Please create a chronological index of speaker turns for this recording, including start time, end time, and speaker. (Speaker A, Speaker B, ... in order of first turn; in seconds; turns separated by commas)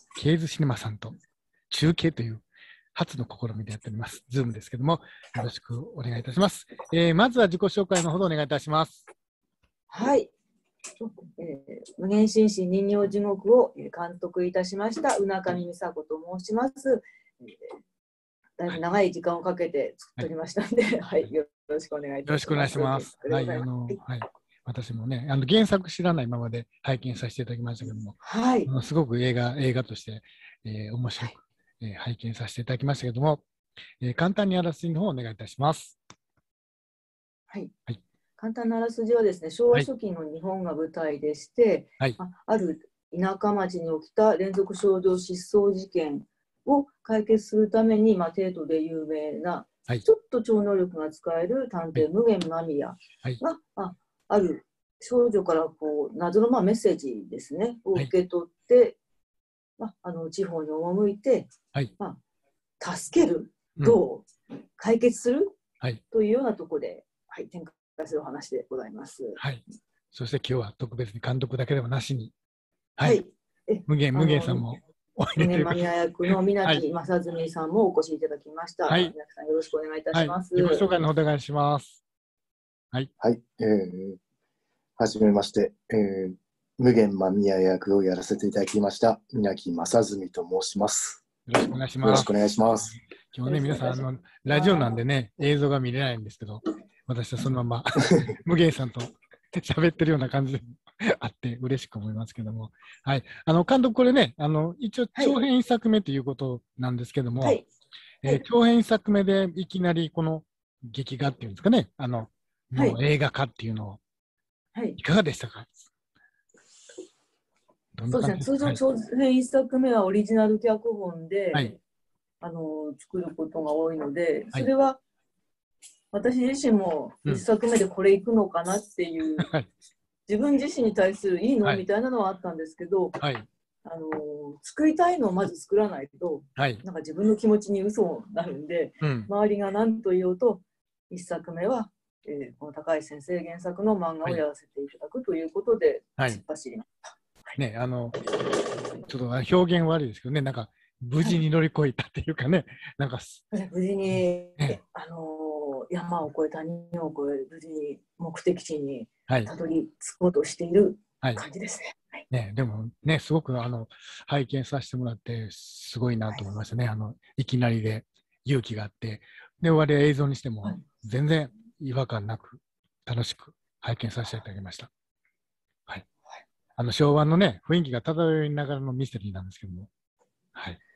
Speaker A: 0.2-1.1, Speaker A: 1.7-9.0, Speaker B: 9.9-10.3, Speaker B: 11.0-17.8, Speaker B: 18.6-24.0, Speaker A: 22.2-33.4, Speaker B: 28.2-28.7, Speaker A: 34.0-36.0, Speaker B: 38.4-59.0, Speaker B: 59.8-62.2, Speaker B: 62.8-65.5, Speaker B: 66.1-69.4, Speaker A: 69.4-72.3, Speaker B: 73.0-74.7, Speaker A: 73.8-75.8, Speaker B: 75.3-80.9, Speaker A: 78.9-79.1, Speaker A: 80.1-82.0, Speaker C: 83.2-84.2, Speaker C: 85.0-91.2, Speaker A: 91.5-92.3, Speaker C: 92.0-92.9, Speaker A: 92.9-107.6, Speaker B: 93.4-95.0, Speaker B: 107.4-107.7, Speaker A: 108.2-114.0, Speaker A: 115.0-115.7, Speaker A: 118.0-118.8, Speaker B: 118.1-121.7, Speaker B: 122.4-125.0, Speaker B: 126.1-129.5, Speaker A: 129.4-129.7, Speaker B: 130.3-133.2, Speaker A: 133.2-133.5, Speaker B: 133.8-147.6, Speaker A: 136.6-136.8, Speaker A: 139.0-139.3, Speaker A: 147.6-148.2, Speaker A: 149.0-153.4, Speaker B: 153.5-162.2, Speaker A: 162.3-174.9, Speaker A: 176.8-179.9, Speaker A: 180.5-180.8